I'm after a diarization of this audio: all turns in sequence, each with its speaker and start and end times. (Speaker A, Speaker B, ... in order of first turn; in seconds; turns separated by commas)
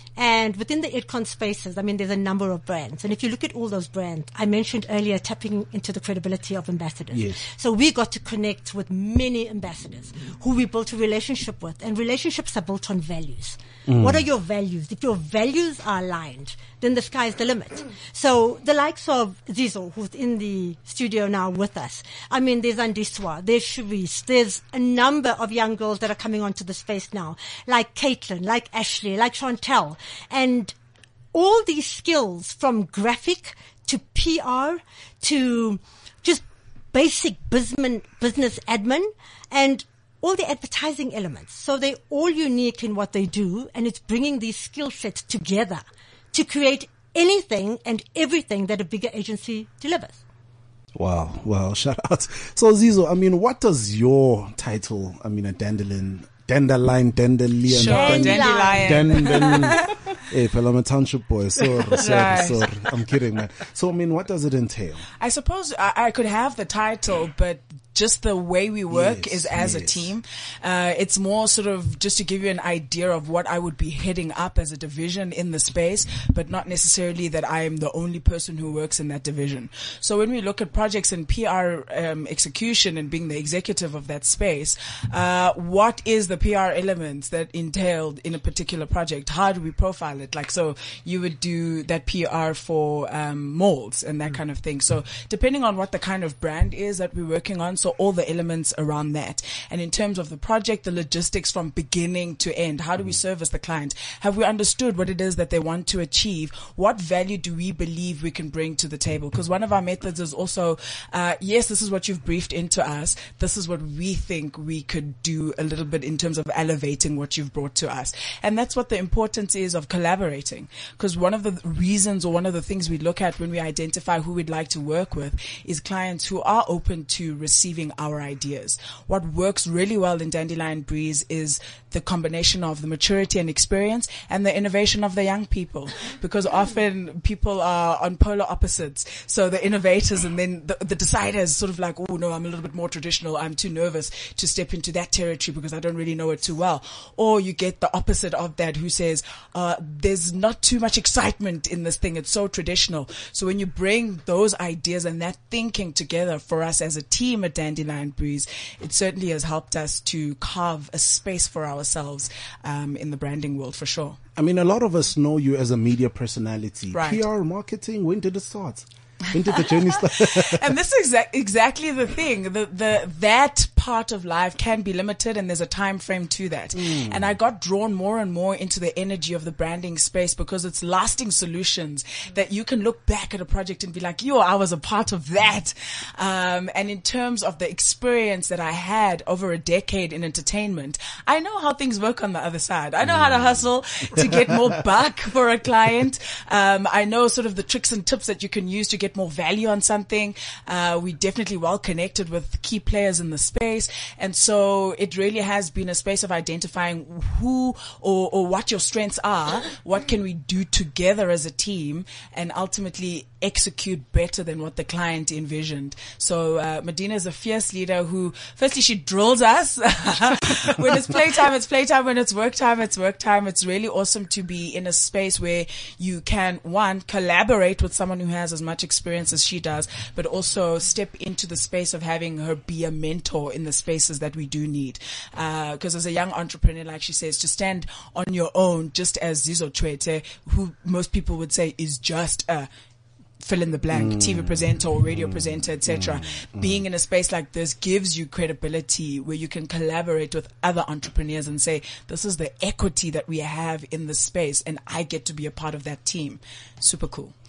Speaker A: 0.1-30.7, Speaker B: 7.1-7.4, Speaker B: 13.9-14.2, Speaker A: 31.3-50.2, Speaker B: 50.9-65.0, Speaker C: 57.7-60.2, Speaker A: 57.8-59.5, Speaker C: 61.6-62.8, Speaker C: 65.2-164.2, Speaker B: 68.9-70.1, Speaker B: 164.3-170.7, Speaker C: 166.9-167.2, Speaker C: 169.5-242.7, Speaker B: 176.7-177.3, Speaker B: 193.0-194.8, Speaker C: 243.4-257.3, Speaker B: 243.9-246.8